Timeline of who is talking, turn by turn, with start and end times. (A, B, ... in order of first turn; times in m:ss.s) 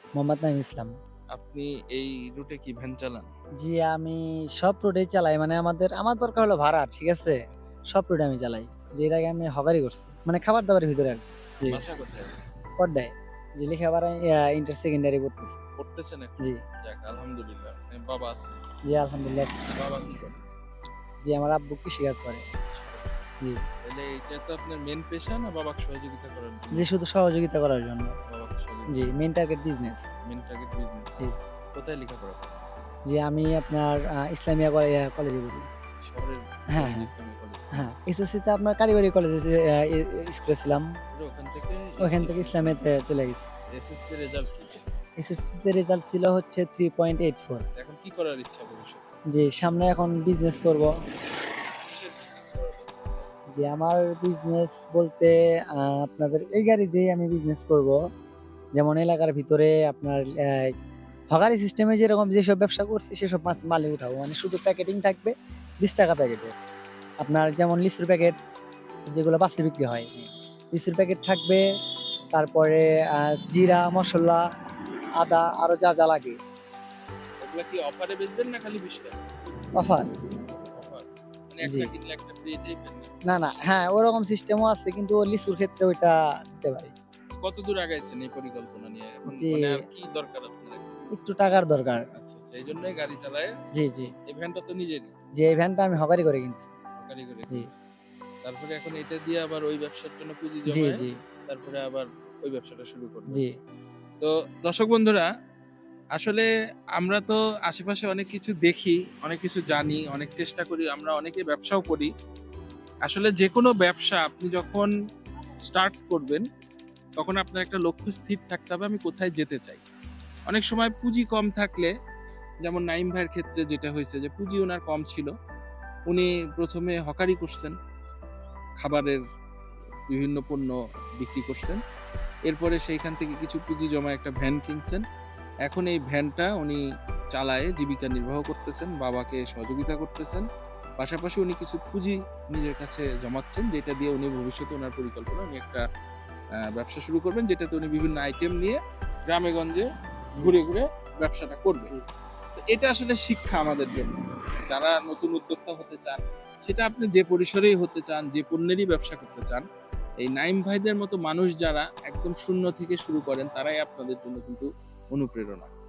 0:00.2-0:00.9 A
0:01.3-0:03.3 B
0:03.6-0:11.8 A
0:07.2-0:07.8 B
0:11.6-0:12.4 B
0:12.8-0:15.6 A
0:15.8-0:18.6 B
0:18.8-0:19.6 A
0:19.7-0:20.4 B
0:21.2-0:22.5 A
0:22.6-0:23.2 B
0:23.8-0:26.9 B
0:26.7-0:28.2 A
0:28.3-0:29.1 B
0:28.9-0:30.1 A
0:30.2-0:31.1 B
0:31.7-0:32.7 B
0:33.1-0:35.7 A
0:36.0-0:37.8 B
0:36.7-0:37.1 A
0:37.7-0:40.8 A
0:41.1-0:42.8 B
0:42.0-0:43.4 A
0:43.7-0:44.8 B
0:45.2-0:47.6 A
0:47.8-0:49.1 B
0:49.3-0:50.9 A
0:51.7-0:53.6 B
0:53.5-0:58.0 A
0:58.8-1:00.7 A
1:01.3-1:06.5 A
1:07.2-1:08.4 A
1:09.1-1:11.6 A
1:12.3-1:14.4 A
1:15.2-1:16.4 A
1:17.4-1:19.2 B
1:19.8-1:20.1 A
1:20.6-1:23.1 B
1:21.6-1:21.9 A
1:23.3-1:26.9 A
1:27.4-1:30.8 B
1:29.3-1:29.8 A
1:31.1-1:32.0 A
1:32.1-1:33.5 B
1:33.7-1:34.1 A
1:34.3-1:35.1 B
1:35.4-1:36.7 A
1:37.0-1:37.8 B
1:38.4-1:43.4 B
1:40.7-1:41.1 A
1:44.2-1:45.3 B
1:46.2-1:52.1 B
1:53.0-1:54.9 B
1:55.6-1:56.4 B
1:57.2-1:59.8 B
2:00.5-2:01.9 B
2:02.6-2:05.3 B
2:06.1-2:07.7 B
2:08.8-2:09.2 B
2:10.1-2:11.8 B
2:12.5-2:15.0 B
2:15.6-2:16.8 B
2:17.3-2:20.4 B
2:21.0-2:25.8 B
2:26.6-2:31.9 B
2:32.6-2:39.6 B
2:40.2-2:45.7 B